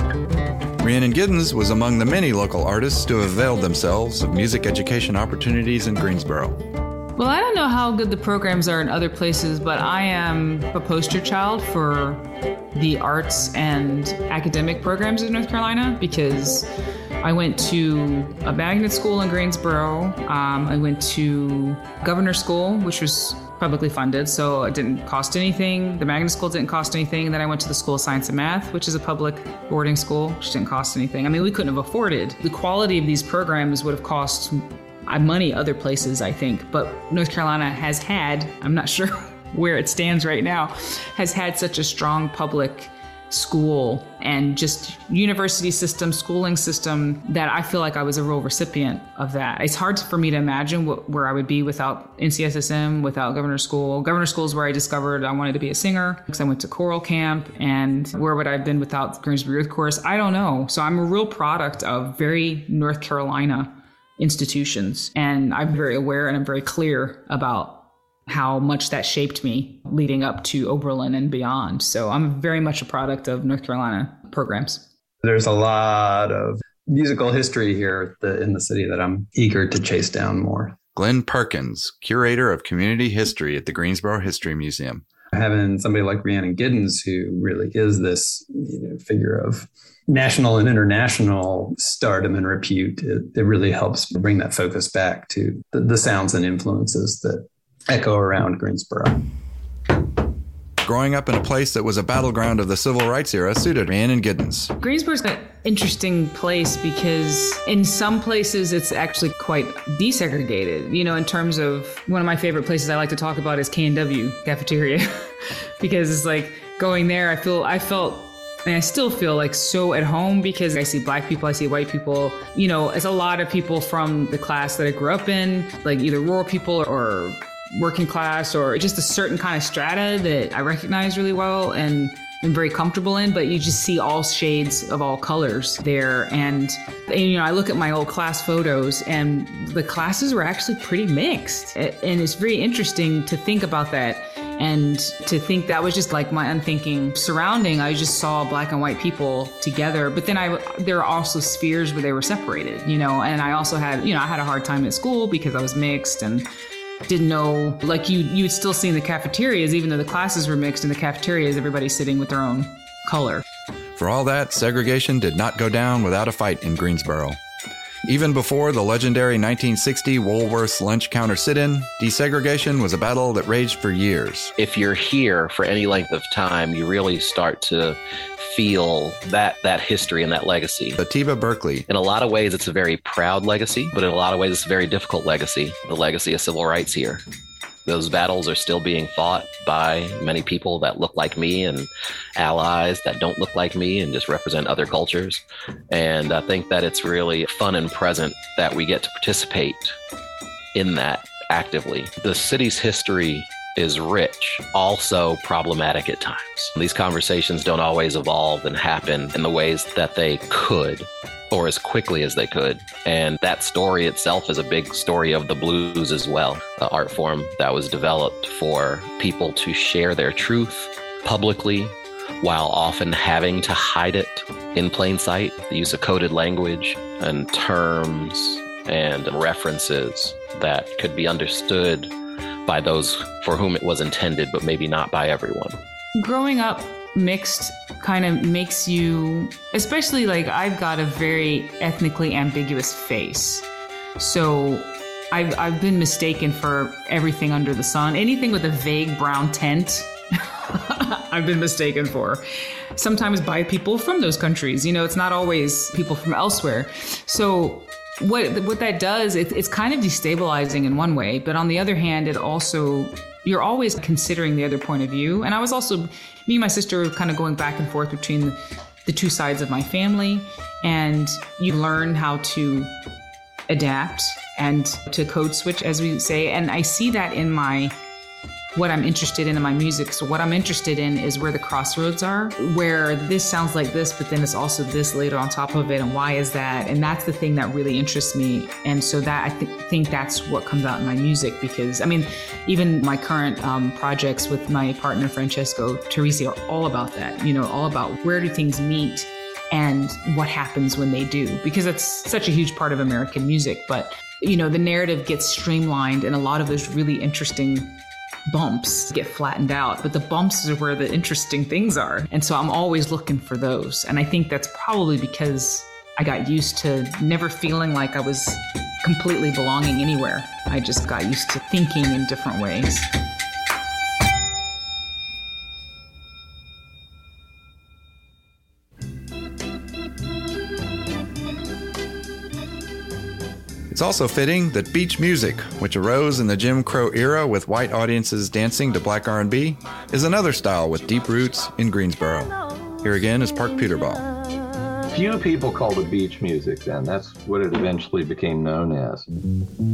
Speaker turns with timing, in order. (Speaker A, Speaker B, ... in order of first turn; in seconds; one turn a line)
Speaker A: 0.8-6.6
Speaker B: 7.2-16.7
Speaker B: 17.2-74.9
Speaker C: 75.2-80.8
Speaker A: 81.0-85.0
Speaker C: 85.3-99.2
Speaker A: 100.8-104.7
Speaker B: 104.8-156.5
Speaker B: 157.1-163.4
Speaker A: 163.9-167.4
Speaker A: 168.0-174.5
Speaker D: 174.6-181.0
Speaker A: 181.0-181.8
Speaker D: 181.9-187.2
Speaker D: 187.8-200.0
Speaker D: 200.7-232.1
Speaker D: 232.7-235.8
Speaker B: 236.1-243.6
Speaker B: 244.2-272.9
Speaker B: 273.7-277.9
Speaker B: 278.7-307.9
Speaker B: 308.5-323.1
Speaker A: 333.9-344.2
Speaker E: 345.1-349.3